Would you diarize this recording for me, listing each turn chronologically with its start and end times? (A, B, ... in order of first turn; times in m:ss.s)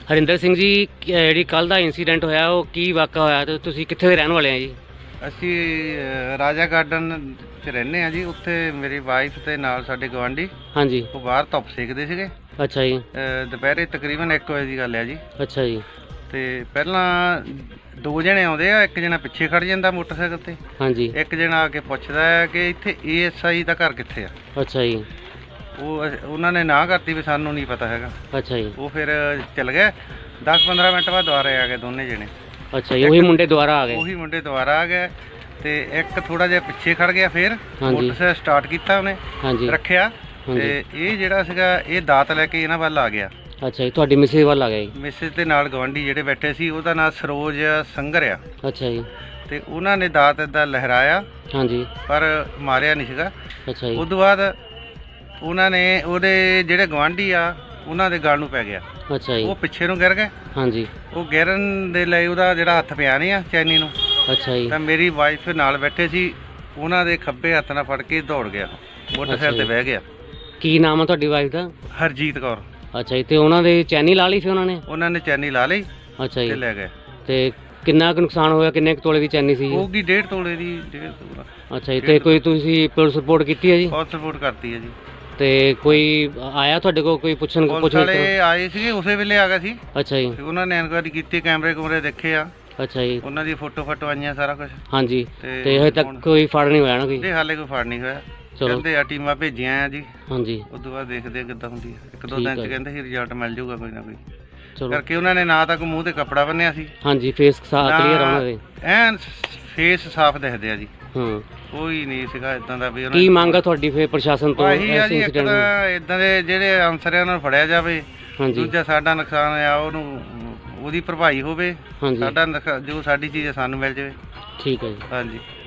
0:00.1-0:04.8 A
0:05.2-0:10.5 B
0:10.7-0:11.1 A
0:11.1-0:12.3 B
0:12.6-0:13.1 A
0:13.1-0:15.2 B
0:15.4-0:15.8 A
0:16.3-0:20.6 B
0:20.8-0:21.2 A
0:21.1-0:24.3 B
0:24.6-0:25.1 A
0:25.8-0:28.2 B
0:28.3-0:28.8 A
0:28.8-0:32.3 B
0:32.7-0:34.0 A
0:33.0-0:33.4 B
0:33.9-0:43.3 B
0:37.8-0:38.2 A
0:39.4-0:39.8 A
0:40.5-0:40.8 A
0:43.6-0:44.9 A
0:44.9-0:48.4 B
0:48.6-0:49.1 A
0:49.5-0:51.2 B
0:51.5-0:51.9 A
0:52.1-0:53.3 B
0:53.7-0:54.0 A
0:54.0-0:54.6 B
0:55.4-0:58.8 B
0:59.1-0:59.5 A
0:59.4-1:00.3 B
1:00.5-1:00.9 A
1:01.1-1:03.9 B
1:04.3-1:04.8 A
1:04.7-1:10.0 B
1:09.3-1:09.7 A
1:10.6-1:11.7 A
1:11.9-1:12.6 B
1:12.9-1:14.8 A
1:14.9-1:15.9 B
1:16.2-1:16.6 A
1:16.5-1:16.9 B
1:17.3-1:19.9 A
1:19.7-1:21.5 B
1:21.7-1:24.0 A
1:22.0-1:22.4 B
1:23.9-1:25.0 B
1:25.4-1:28.3 A
1:27.7-1:29.8 B
1:29.9-1:30.4 A
1:30.4-1:32.5 B
1:32.8-1:33.2 A
1:33.2-1:34.8 B
1:34.9-1:37.3 A
1:35.4-1:36.3 B
1:37.2-1:40.1 B
1:38.6-1:38.8 A
1:40.3-1:40.7 A
1:40.7-1:44.2 B
1:42.3-1:42.8 A
1:44.9-1:46.9 B
1:47.0-1:48.6 A
1:47.8-1:50.9 B
1:51.1-1:51.5 A
1:51.7-1:53.6 B
1:53.1-1:55.7 A
1:54.6-2:04.2 B
1:58.4-1:58.7 A
2:02.0-2:02.4 A
2:04.6-2:05.1 A
2:05.1-2:05.4 B